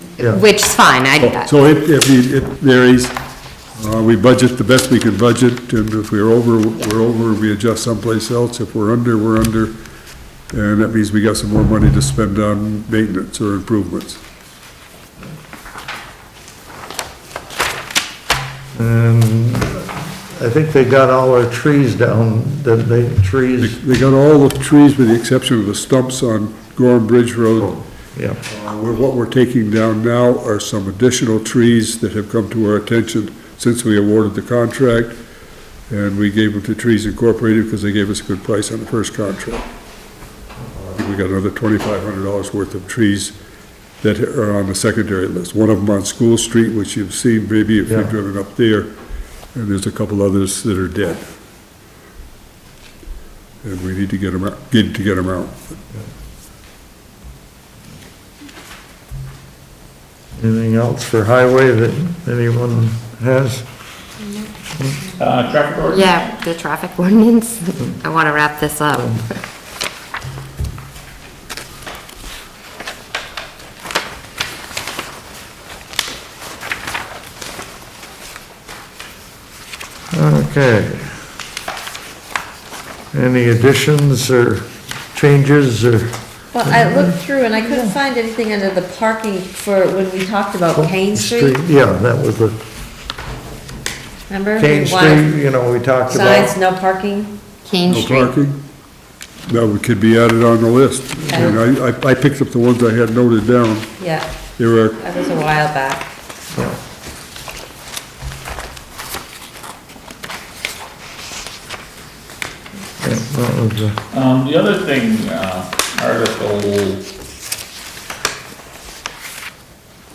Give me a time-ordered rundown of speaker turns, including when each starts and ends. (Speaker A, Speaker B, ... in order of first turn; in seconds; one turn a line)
Speaker A: 0.2-1.5
Speaker B: 1.2-3.1
Speaker B: 3.8-9.8
Speaker B: 10.5-14.2
Speaker C: 18.7-23.8
Speaker B: 23.6-27.8
Speaker C: 27.6-28.4
Speaker B: 28.4-35.2
Speaker B: 35.9-39.6
Speaker B: 40.9-43.3
Speaker B: 44.0-48.9
Speaker B: 49.5-51.3
Speaker B: 53.6-55.7
Speaker C: 60.4-63.6
Speaker D: 65.2-66.3
Speaker A: 65.9-69.4
Speaker C: 68.9-69.3
Speaker C: 80.1-81.2
Speaker C: 83.1-87.9
Speaker E: 86.5-91.6
Speaker C: 90.7-92.6
Speaker E: 94.3-95.3
Speaker C: 94.6-96.5
Speaker E: 96.1-97.3
Speaker A: 97.6-98.3
Speaker B: 97.9-98.6
Speaker B: 99.5-103.9
Speaker E: 104.0-104.2
Speaker B: 104.6-105.0
Speaker E: 105.0-106.1
Speaker C: 113.0-114.0
Speaker D: 114.1-117.0